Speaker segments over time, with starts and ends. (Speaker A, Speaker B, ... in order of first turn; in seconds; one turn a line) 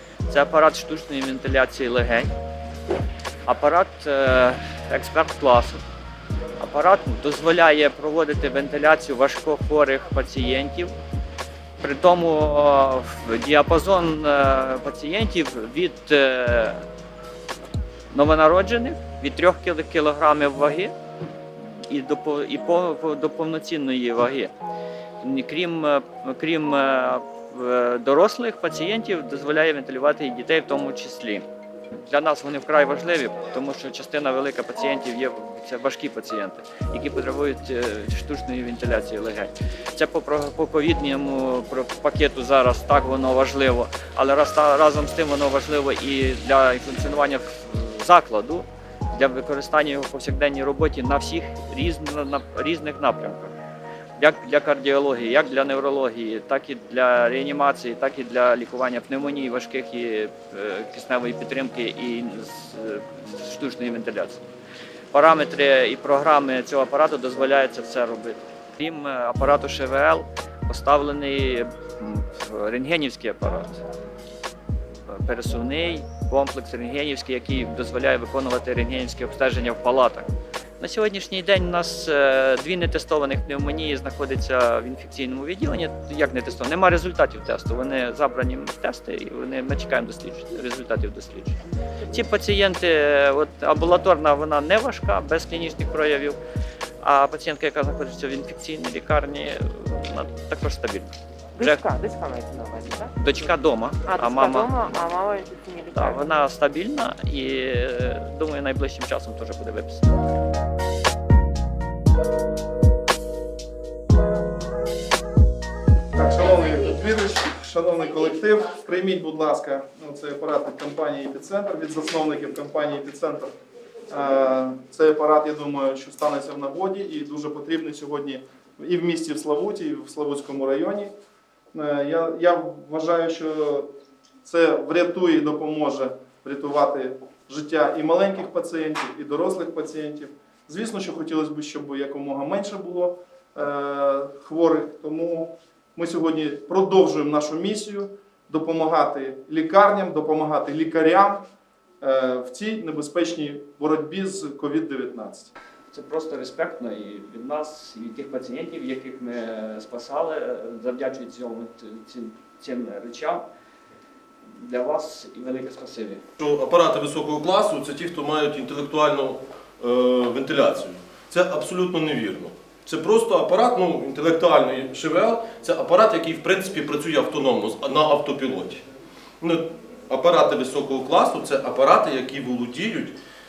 Speaker A: 0.3-2.3
Speaker A: 3.5-5.8
Speaker A: 6.6-10.9
Speaker A: 11.8-16.8
Speaker A: 18.1-20.9
Speaker A: 21.6-24.5
Speaker A: 25.2-53.5
Speaker A: 54.2-64.4
Speaker A: 65.1-73.8
Speaker A: 75.1-80.3
Speaker A: 80.8-96.4
Speaker A: 97.0-101.9
Speaker B: 101.6-103.1
Speaker A: 103.1-104.8
Speaker B: 104.0-106.3
Speaker A: 105.9-110.0
Speaker C: 116.1-123.5
Speaker C: 124.1-131.1
Speaker C: 131.7-133.9
Speaker C: 134.4-151.4
Speaker C: 152.0-155.5
Speaker A: 155.9-163.4
Speaker A: 164.5-166.2
Speaker D: 166.4-178.8
Speaker D: 179.4-183.2